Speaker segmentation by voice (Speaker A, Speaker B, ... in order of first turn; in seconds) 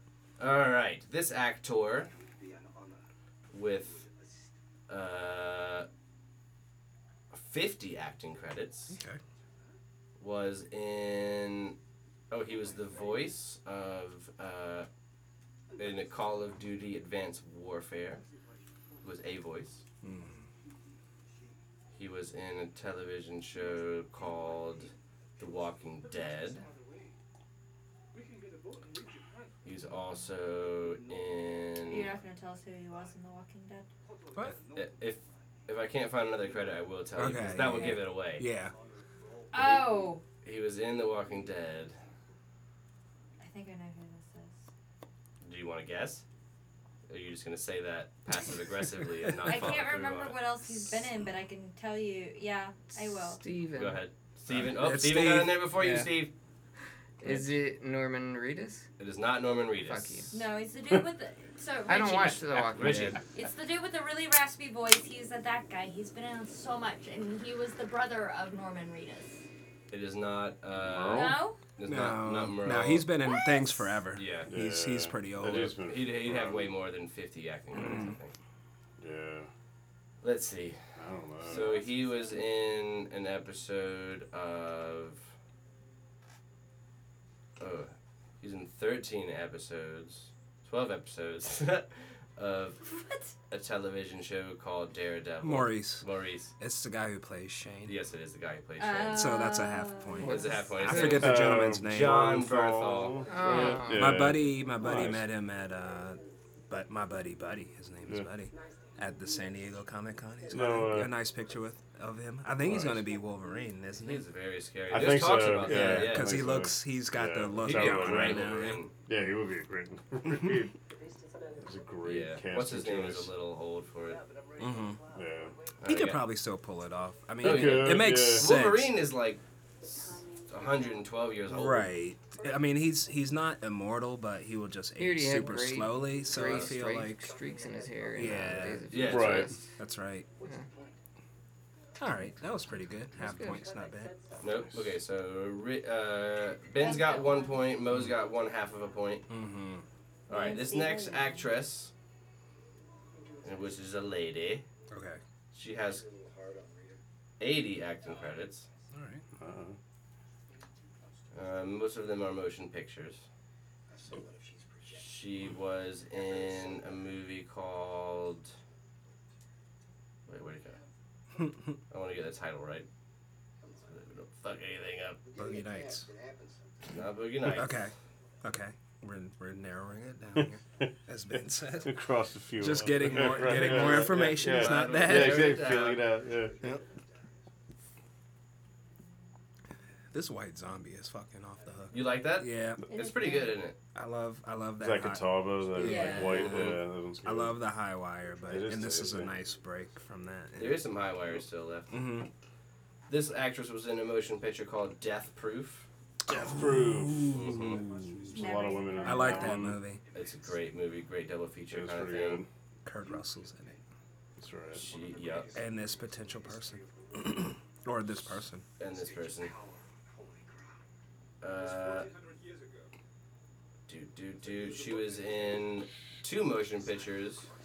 Speaker A: 0.4-2.1, 3.5-4.1, 4.9-5.9, 7.3-8.9, 10.2-11.8, 12.3-14.9, 15.8-18.2, 19.0-19.8, 21.9-26.6, 29.6-32.1, 34.7-38.5, 40.4-42.0, 45.4-46.2, 47.1-50.3, 53.8-56.3, 59.0-60.2, 62.6-63.2, 69.9-73.1, 74.1-74.5, 75.6-78.3, 80.2-80.8, 81.4-85.3, 87.6-92.8, 93.5-96.5, 97.8-99.3, 100.2-103.8, 114.0-116.3, 117.6-118.9, 122.0-124.2, 125.8-126.2, 127.4-131.9, 138.9-139.5, 144.4-149.3, 150.3-151.9, 153.4-154.7, 155.5-156.1, 157.4-158.7, 161.3-163.2, 164.8-168.5, 170.2-170.8, 171.9-172.9, 173.8-175.2, 176.8-177.8, 183.5-186.1, 191.9-193.8, 200.6-202.0, 203.1-205.9, 207.3-207.8, 210.1-212.4, 214.7-215.5, 218.8-219.5, 221.4-222.1, 223.9-227.5
Speaker B: 8.9-9.2, 20.0-20.4, 37.2-38.7, 54.5-56.1, 57.2-57.5, 71.8-75.8, 77.7-78.1, 95.4-96.0, 96.6-98.0, 99.1-102.4, 103.9-114.2, 115.6-118.8, 124.6-125.0, 125.8-128.9, 131.5-137.3, 138.1-138.9, 139.8-140.3, 142.0-144.1, 149.3-149.8, 154.9-155.2, 158.9-159.2, 171.4-171.7, 175.3-176.1, 177.5-181.9, 182.6-185.6, 190.1-192.8, 193.9-200.8, 201.9-202.3, 206.3-208.2, 209.0-210.0, 212.8-213.8, 215.5-218.7
Speaker C: 31.9-33.9, 39.5-40.2, 43.4-44.6, 49.4-53.4, 60.3-62.5, 63.3-69.4, 71.1-71.6, 92.8-93.3, 98.8-100.9, 146.8-147.6, 150.3-151.4, 192.9-193.5, 195.8-196.6, 208.3-209.5
Speaker D: 53.4-54.0, 57.2-58.9, 59.8-60.4, 61.9-63.2, 100.2-101.0, 103.3-104.2, 135.0-139.7, 143.2-143.6
Speaker E: 70.7-71.4, 74.5-76.7, 79.0-79.5, 81.0-81.8, 101.0-105.2, 110.5-111.1, 112.6-113.0, 114.9-120.7, 121.6-123.3, 125.1-125.5, 127.4-128.5, 139.0-139.5, 144.5-144.8, 159.4-159.8, 180.3-180.9, 181.8-186.8, 194.8-197.6, 198.5-199.3, 206.3-209.8, 211.7-212.5, 214.4-214.8